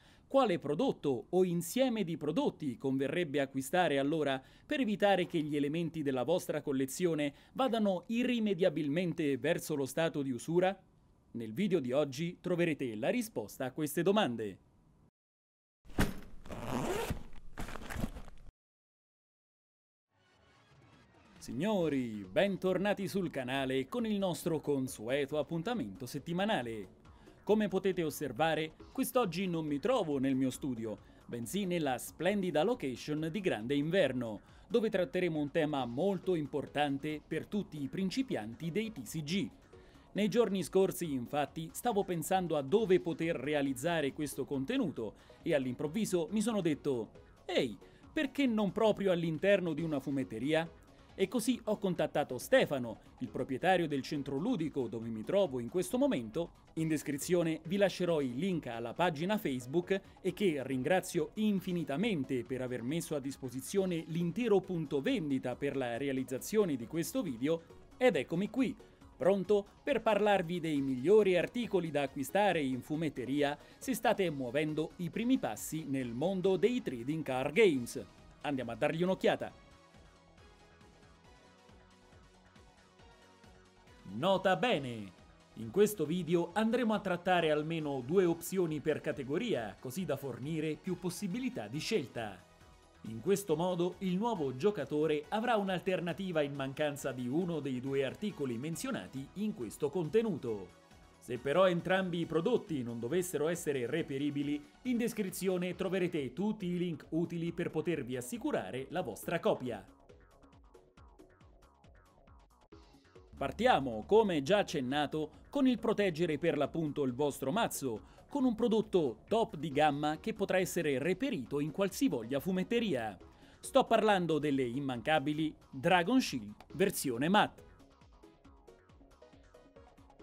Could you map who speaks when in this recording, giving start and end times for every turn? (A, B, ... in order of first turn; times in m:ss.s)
0:00.3-0:14.6 A
0:21.4-0:26.9 A
0:27.4-0:39.6 A
0:40.1-1:19.6 A
1:24.0-1:32.5 A
1:33.0-1:49.9 A
1:53.4-2:07.6 A